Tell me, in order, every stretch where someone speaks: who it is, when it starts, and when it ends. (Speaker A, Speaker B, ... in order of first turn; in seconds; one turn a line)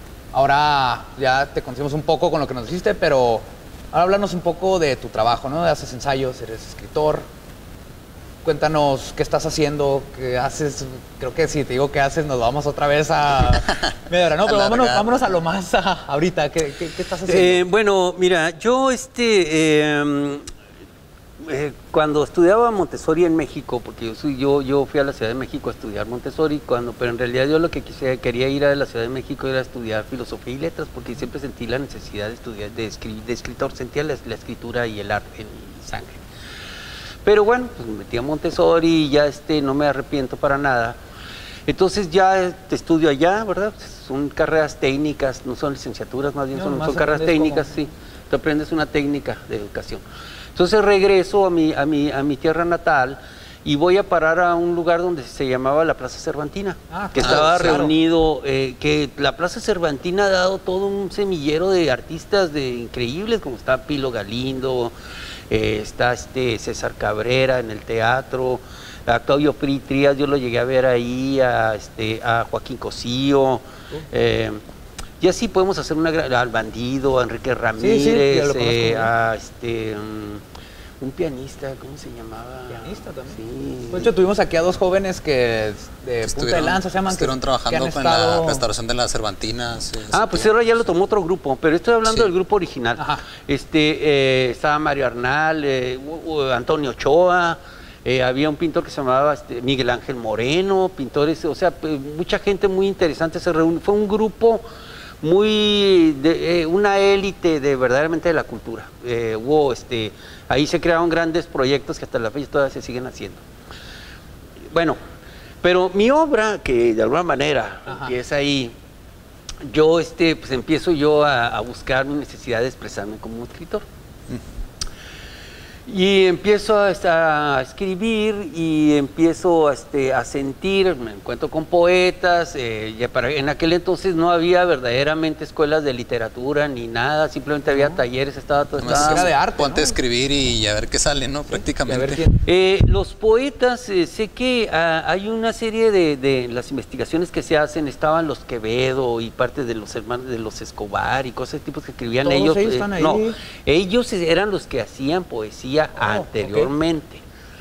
Speaker A: 0.3-7.2
Speaker A: 8.4-17.6
Speaker B: 13.4-15.2
Speaker C: 17.2-20.4
Speaker C: 21.4-36.2
Speaker C: 37.2-40.9
Speaker C: 41.7-50.0
Speaker A: 46.5-47.7
Speaker C: 50.5-64.9
Speaker A: 56.9-58.0
Speaker B: 57.2-57.8
Speaker C: 65.5-74.6
Speaker C: 75.2-80.4
Speaker A: 77.8-79.1
Speaker C: 81.0-84.1
Speaker A: 82.7-88.6
Speaker B: 86.2-90.5
Speaker C: 90.1-92.9
Speaker B: 92.0-92.3
Speaker A: 93.0-93.3
Speaker C: 93.5-104.6
Speaker C: 105.2-113.4
Speaker C: 115.6-118.7
Speaker A: 117.9-118.2
Speaker C: 119.7-123.8
Speaker C: 125.9-139.2
Speaker A: 137.7-138.0
Speaker B: 138.8-142.2
Speaker A: 138.8-140.0
Speaker A: 141.5-142.4
Speaker C: 142.4-157.2
Speaker A: 152.2-153.4
Speaker A: 155.9-156.7